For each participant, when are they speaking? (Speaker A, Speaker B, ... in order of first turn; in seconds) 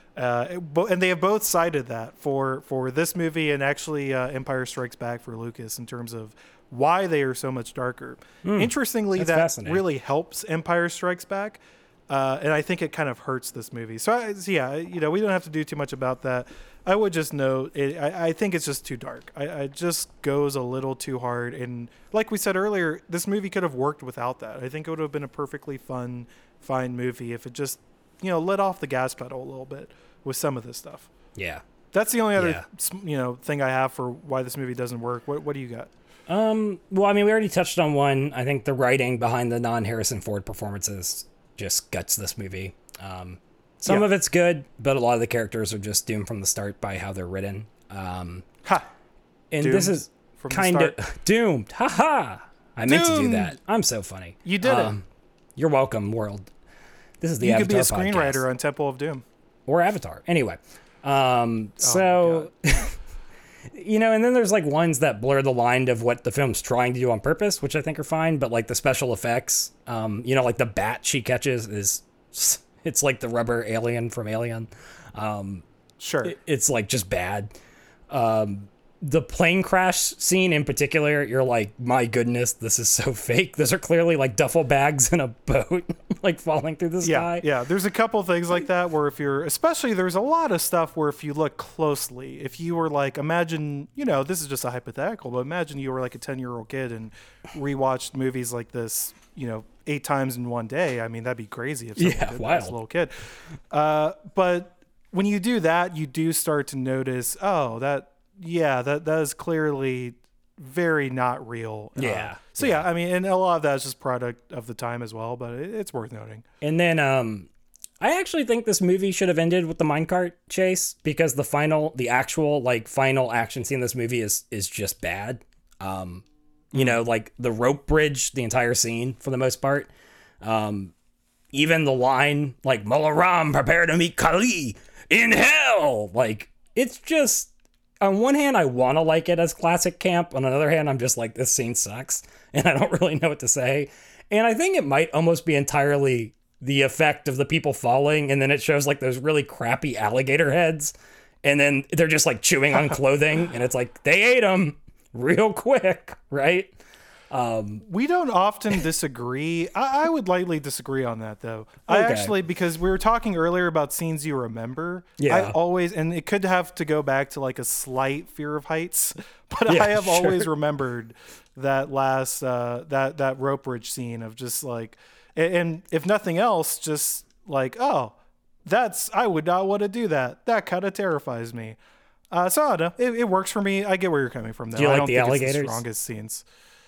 Speaker A: 0.2-31.1, 31.9-35.9, 49.6-51.0, 52.9-53.5, 54.4-55.0, 57.4-59.2, 61.8-62.5, 76.0-76.3, 87.0-116.4, 126.7-127.0, 157.9-181.8, 182.3-186.4
Speaker B: 8.4-9.8, 31.4-31.6, 32.4-32.6, 36.3-48.5, 49.5-55.0, 55.6-56.5, 57.2-58.4, 59.7-63.0, 63.7-75.6, 76.2-77.5, 78.1-87.5, 102.0-102.8, 112.0-112.8, 116.6-117.5, 118.0-129.9, 130.4-130.9, 131.5-156.7, 157.3-157.8, 161.9-162.3, 165.2-165.6, 169.7-170.5, 184.8-185.8